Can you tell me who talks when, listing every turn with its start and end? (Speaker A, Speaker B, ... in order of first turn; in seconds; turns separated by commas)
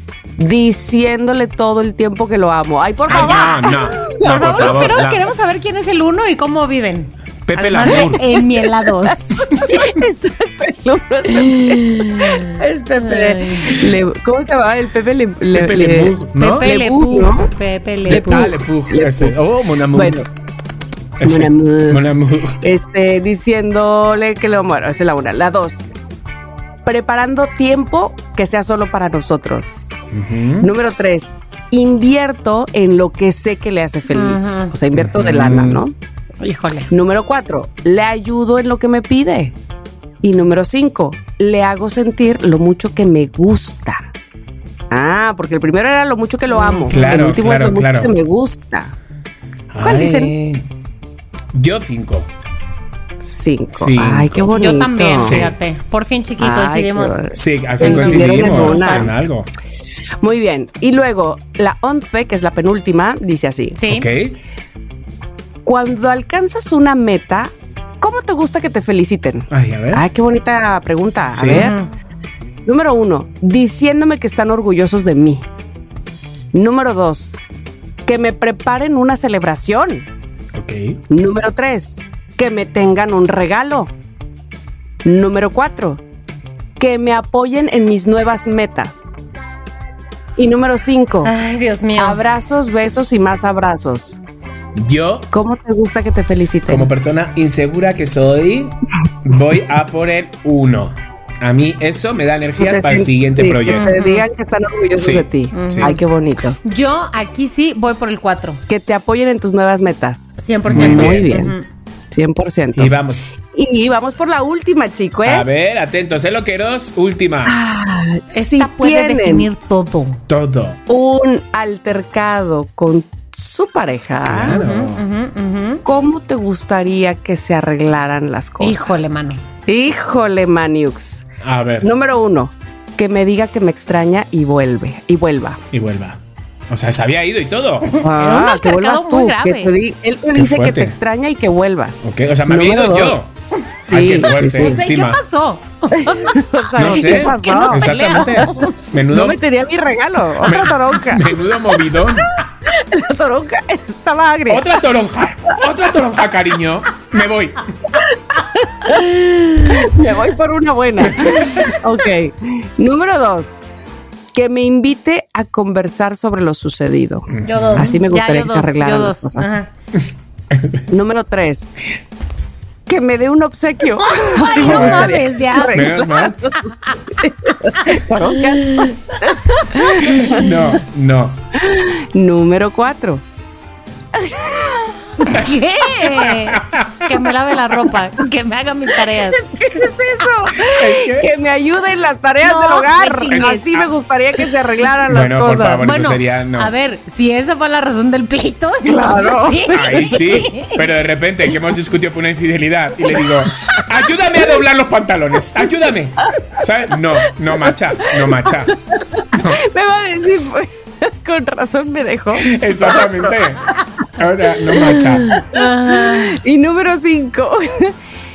Speaker A: 0.4-4.7, Speaker B: 3.1-5.2, Speaker C: 3.1-9.6, Speaker B: 7.5-8.2, Speaker A: 7.8-8.7, Speaker A: 9.3-17.5, Speaker C: 11.4-13.8, Speaker B: 15.5-16.7, Speaker C: 16.4-18.5, Speaker A: 18.1-19.3, Speaker B: 18.1-20.2, Speaker A: 19.9-20.2, Speaker B: 21.2-22.6, Speaker A: 21.2-25.8, Speaker A: 26.8-29.9, Speaker B: 30.1-30.7, Speaker A: 30.6-35.9, Speaker C: 34.1-34.7, Speaker B: 34.9-35.8, Speaker C: 36.4-36.9, Speaker A: 36.9-39.5, Speaker A: 40.2-44.0, Speaker A: 44.9-48.9, Speaker C: 46.5-47.0, Speaker B: 46.9-48.1, Speaker B: 49.7-50.6, Speaker A: 49.8-50.3, Speaker B: 51.5-52.3, Speaker A: 53.2-55.5, Speaker B: 53.8-54.5, Speaker C: 54.5-57.3, Speaker B: 55.1-55.5, Speaker A: 56.4-59.1, Speaker B: 57.3-59.5, Speaker C: 57.8-59.1, Speaker A: 60.2-63.8, Speaker C: 63.7-64.1, Speaker B: 63.9-64.4, Speaker A: 65.6-71.8, Speaker B: 69.5-70.0, Speaker B: 71.3-71.7, Speaker C: 71.5-71.9, Speaker A: 72.6-75.5, Speaker A: 76.5-77.4, Speaker A: 78.0-80.1, Speaker B: 80.5-81.0, Speaker A: 81.1-83.9, Speaker A: 85.0-86.0, Speaker A: 86.8-89.0, Speaker A: 90.4-91.3, Speaker C: 91.2-92.2, Speaker A: 92.0-94.2, Speaker B: 94.7-95.3, Speaker A: 95.3-96.9, Speaker B: 96.7-104.0, Speaker A: 102.6-106.6, Speaker C: 103.7-104.2, Speaker B: 105.0-106.0, Speaker C: 105.5-106.0, Speaker C: 106.6-108.6, Speaker A: 108.7-111.5, Speaker C: 110.4-111.6, Speaker B: 110.7-111.4, Speaker A: 112.1-112.9, Speaker B: 112.7-113.2, Speaker A: 113.5-115.5, Speaker B: 115.2-117.5, Speaker A: 117.5-119.5, Speaker C: 118.3-120.2, Speaker B: 120.3-120.8, Speaker A: 120.9-124.5, Speaker B: 124.2-125.0, Speaker C: 124.5-125.8, Speaker A: 125.8-128.9, Speaker C: 128.6-129.4, Speaker A: 129.7-131.2, Speaker B: 131.4-131.9, Speaker A: 131.8-135.6, Speaker B: 135.7-136.2, Speaker B: 136.7-138.0, Speaker A: 138.0-143.2, Speaker C: 138.0-139.7, Speaker B: 140.3-140.9, Speaker B: 142.0-143.3, Speaker A: 143.9-144.8, Speaker B: 143.9-145.2, Speaker C: 144.4-148.9, Speaker A: 146.0-148.5, Speaker B: 146.8-149.4, Speaker A: 149.1-154.6, Speaker B: 150.4-152.4, Speaker B: 154.5-157.7, Speaker A: 158.0-163.6, Speaker B: 161.2-161.7, Speaker A: 164.3-169.6, Speaker B: 167.3-168.0, Speaker C: 167.4-169.7, Speaker B: 170.6-170.8, Speaker A: 170.9-171.8, Speaker A: 172.9-180.5, Speaker C: 174.4-176.1, Speaker B: 174.6-176.5, Speaker C: 176.6-177.0, Speaker C: 177.8-180.5, Speaker B: 180.3-181.4, Speaker A: 181.6-183.2, Speaker A: 184.1-184.9, Speaker C: 185.2-189.9, Speaker B: 186.2-187.0, Speaker A: 189.0-195.8, Speaker B: 190.7-191.3, Speaker C: 192.4-193.6, Speaker B: 193.3-193.9, Speaker B: 195.1-196.7, Speaker C: 195.8-200.8, Speaker A: 198.8-200.2, Speaker B: 199.7-208.8, Speaker A: 207.6-213.4, Speaker B: 209.3-209.6, Speaker B: 212.3-215.3, Speaker A: 214.6-217.9, Speaker C: 215.5-216.3